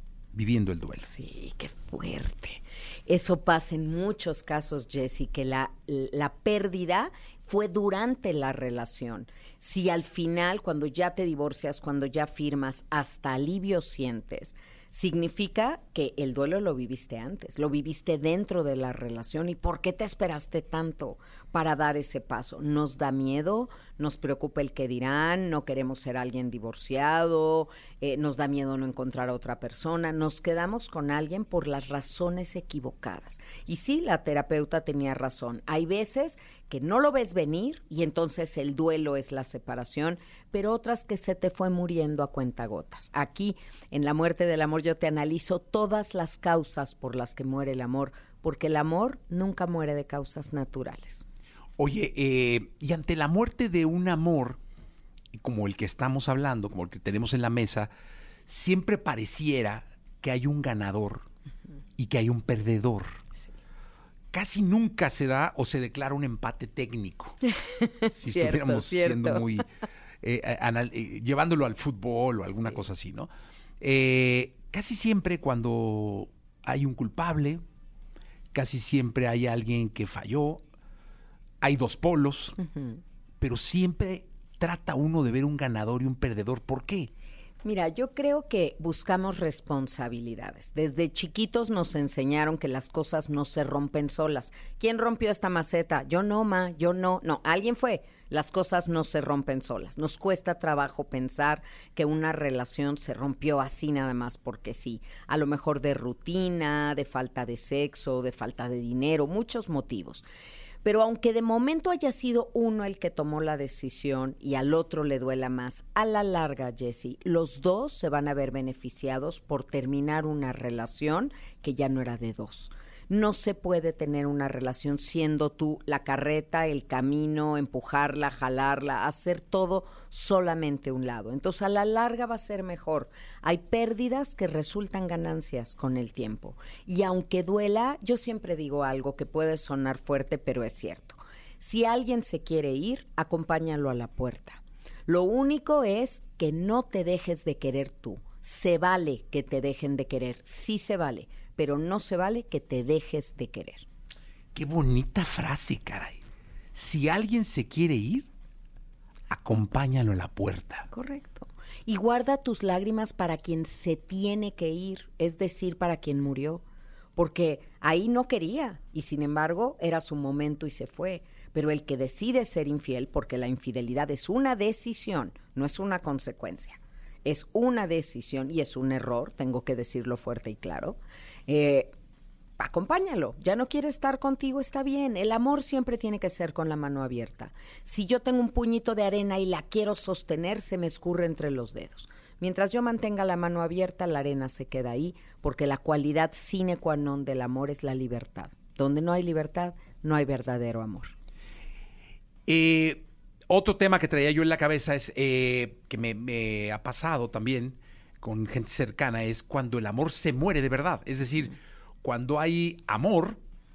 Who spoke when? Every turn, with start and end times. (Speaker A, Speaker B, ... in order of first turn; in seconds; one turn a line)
Speaker A: 0.3-1.1
Speaker B: 1.1-51.2
Speaker A: 51.8-54.6
Speaker A: 55.3-57.9
Speaker A: 58.5-61.2
Speaker A: 62.0-63.2
Speaker A: 64.3-67.4
Speaker B: 67.4-69.5
Speaker A: 68.1-69.7
Speaker A: 70.2-73.3
Speaker A: 73.8-77.6
Speaker A: 78.5-80.6
Speaker A: 81.6-82.5
Speaker B: 82.6-83.0
Speaker A: 83.4-87.1
Speaker B: 87.6-110.2
Speaker B: 110.8-153.8
Speaker A: 154.5-156.2
Speaker A: 156.7-158.3
Speaker A: 159.3-160.9
Speaker B: 160.9-166.6
Speaker B: 167.2-181.9
Speaker B: 182.6-201.1
Speaker A: 202.5-213.4